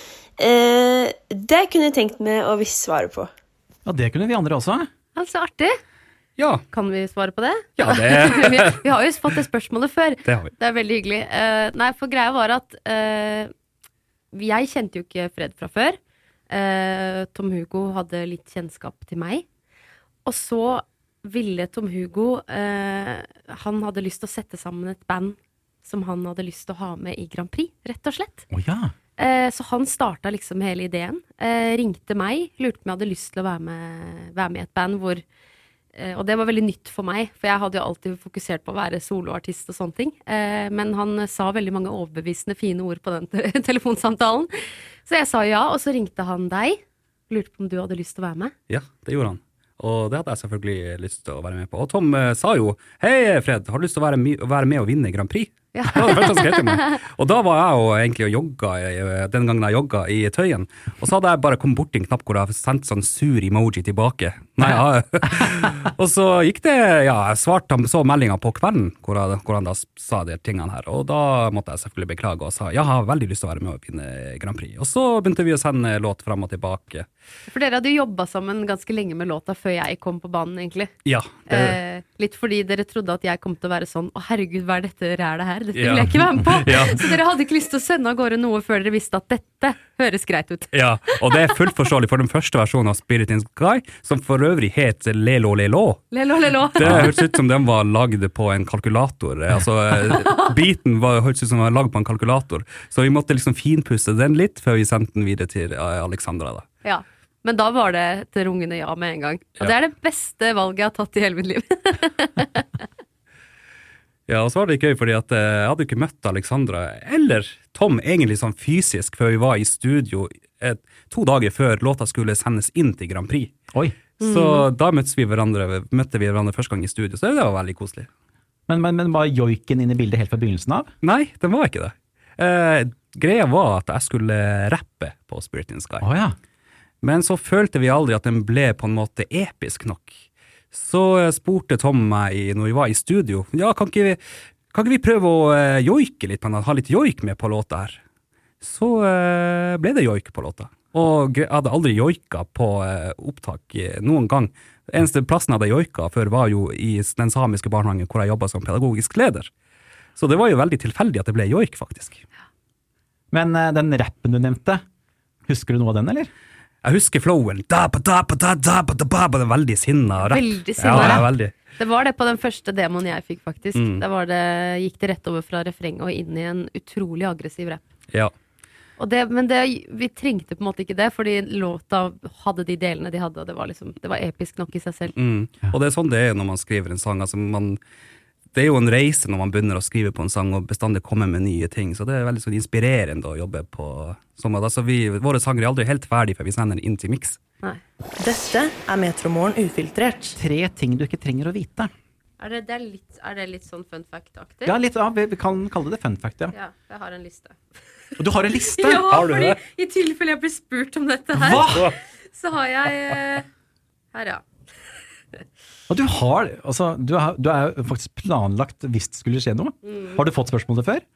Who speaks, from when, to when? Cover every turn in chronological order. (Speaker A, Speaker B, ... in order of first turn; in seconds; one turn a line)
Speaker A: 0.4-3.3
Speaker B: 3.9-4.9
Speaker C: 5.2-5.8
Speaker D: 6.4-6.7
Speaker C: 6.7-13.5
Speaker D: 7.8-8.8
Speaker D: 10.2-10.5
Speaker C: 14.3-16.0
Speaker C: 16.5-19.4
Speaker C: 20.2-28.4
Speaker B: 28.5-28.9
Speaker C: 29.2-35.2
Speaker C: 36.0-44.5
Speaker C: 45.0-48.5
Speaker D: 48.7-77.1
Speaker C: 55.7-56.9
Speaker C: 77.5-80.9
Speaker D: 81.0-81.8
Speaker C: 81.5-91.2
Speaker D: 85.8-87.2
Speaker D: 90.7-96.0
Speaker C: 96.1-97.2
Speaker D: 96.8-106.7
Speaker B: 96.8-97.1
Speaker C: 106.8-112.7
Speaker D: 114.3-123.5
Speaker D: 124.2-128.1
Speaker C: 124.2-124.7
Speaker B: 128.7-130.9
Speaker D: 131.0-136.1
Speaker B: 136.0-136.4
Speaker D: 137.0-140.2
Speaker D: 140.7-144.2
Speaker D: 144.7-148.0
Speaker D: 148.6-159.5
Speaker D: 160.2-162.2
Speaker B: 163.3-164.8
Speaker B: 165.5-166.3
Speaker D: 166.8-171.5
Speaker C: 170.2-177.8
Speaker B: 170.9-171.2
Speaker D: 173.8-174.0
Speaker C: 179.0-185.1
Speaker D: 185.1-187.8
Speaker D: 188.5-197.4
Speaker E: 198.2-200.4
Speaker B: 200.4-201.9
Speaker C: 202.4-204.8
Speaker B: 204.7-206.5
Speaker C: 206.5-207.6
Speaker B: 208.2-209.1
Speaker C: 208.7-213.5
Speaker D: 209.1-209.6
Speaker B: 211.3-211.9
Speaker C: 214.1-214.4
Speaker B: 215.9-221.0
Speaker C: 219.8-220.2